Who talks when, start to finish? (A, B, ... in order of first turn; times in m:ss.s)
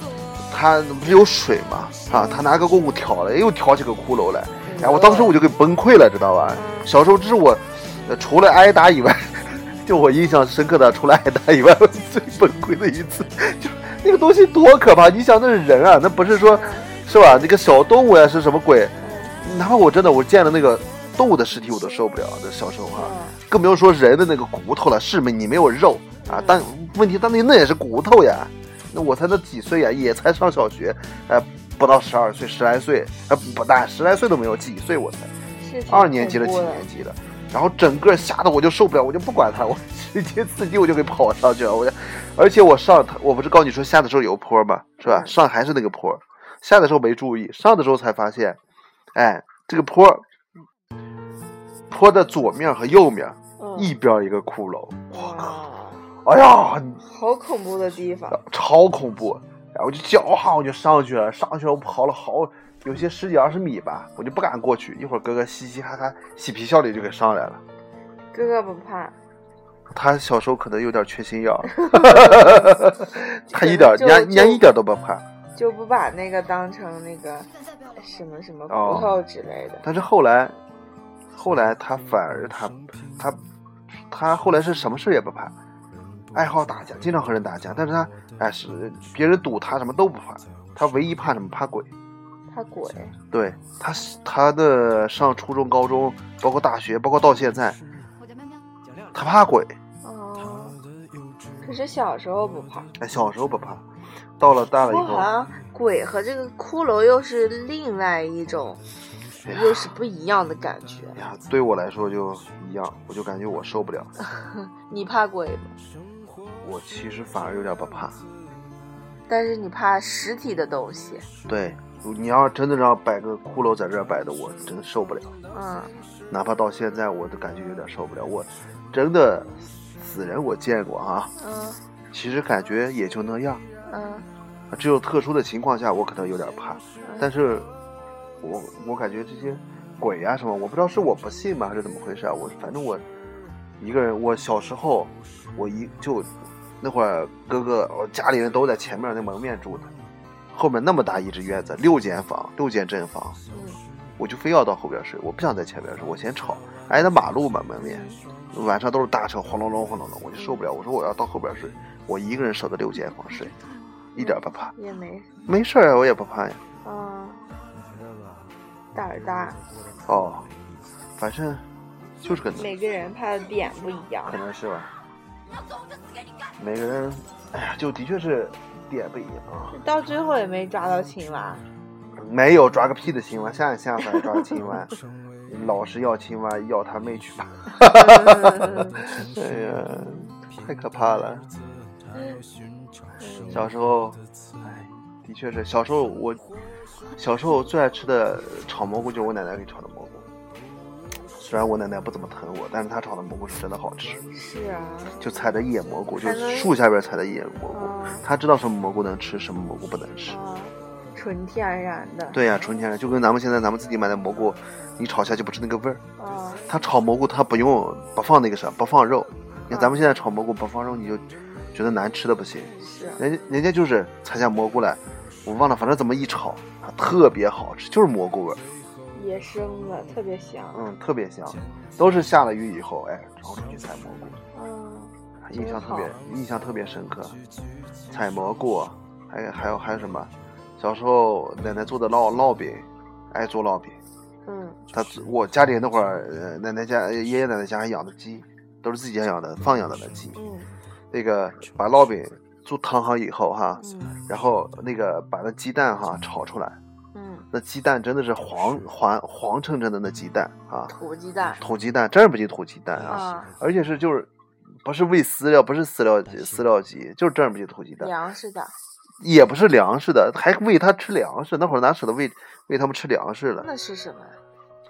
0:00.5-0:35.3 A
0:02.1-0:02.4 B
0:04.6-0:05.4 B
0:06.5-0:06.9 B
0:16.5-0:16.9 B
0:19.0-0:19.4 B
0:22.9-0:23.4 B
0:26.2-0:26.6 B
0:35.6-0:36.9 B
0:35.9-0:48.6 A
0:45.0-0:45.3 B
0:49.1-0:50.2 A
0:51.9-0:55.6 A
0:53.6-0:53.9 B
0:55.1-0:56.0 B
0:56.2-0:57.0 A
0:57.0-0:58.4 B
0:58.3-1:07.6 A
1:08.3-1:09.2 B
1:09.9-1:15.2 A
1:11.8-1:12.8 B
1:13.5-1:14.6 B
1:15.5-1:19.8 B
1:18.7-1:19.1 A
1:19.8-1:20.6 A
1:21.3-1:23.4 A
1:23.9-1:25.5 A
1:26.3-1:31.9 A
1:32.5-1:33.1 B
1:33.3-1:37.8 A
1:39.1-1:39.8 A
1:40.0-1:40.8 B
1:41.6-1:42.9 B
1:43.0-1:43.8 A
1:44.4-1:45.3 A
1:44.8-1:48.8 B
1:49.4-1:49.9 A
1:49.5-1:51.2 B
1:51.2-1:54.1 A
1:54.3-1:55.8 B
1:56.6-1:58.2 A
1:59.3-2:01.3 B
2:01.5-2:05.3 A
2:05.5-2:05.9 B
2:06.3-2:11.3 A
2:11.4-2:11.8 B
2:12.1-2:13.6 A
2:13.9-2:14.3 B
2:14.7-2:17.7 A
2:17.0-2:17.3 B
2:18.4-2:23.0 A
2:23.8-2:29.9 A
2:30.5-2:33.4 A
2:33.5-2:33.8 B
2:34.2-2:43.5 A
2:37.8-2:38.2 B
2:44.1-2:44.7 A
2:44.2-2:45.3 B
2:45.4-2:46.6 A
2:46.8-2:47.4 B
2:48.9-2:49.6 B
2:50.0-2:50.5 A
2:51.2-2:51.6 A
2:52.2-2:52.7 A
2:52.6-2:54.4 B
2:54.2-2:54.9 A
2:56.6-2:59.7 A
2:59.7-3:01.6 B
3:02.2-3:04.9 A
3:05.5-3:11.5 A
3:07.8-3:09.0 B
3:13.2-3:13.6 B
3:13.5-3:16.4 A
3:17.2-3:20.3 A
3:21.4-3:24.2 A
3:24.3-3:25.2 B
3:25.2-3:30.4 A
3:26.2-3:26.7 B
3:27.7-3:28.2 B
3:30.2-3:32.4 B
3:32.3-3:36.0 A
3:36.2-3:36.6 B
3:36.7-3:48.6 A
3:39.7-3:40.0 B
3:42.8-3:43.2 B
3:49.1-3:50.8 B
3:50.7-3:54.4 A
3:54.5-3:56.1 B
3:55.4-3:57.4 A
3:58.1-4:04.0 A
4:04.4-4:04.8 B
4:04.9-4:10.4 A
4:10.3-4:10.7 B
4:11.1-4:16.8 A
4:13.8-4:14.2 B
4:17.1-4:17.4 B
4:17.5-4:20.9 A
4:20.9-4:21.6 B
4:21.6-4:24.3 A
4:23.1-4:23.5 B
4:24.8-4:28.1 A
4:28.0-4:28.7 B
4:29.2-4:33.6 A
4:33.6-4:34.4 B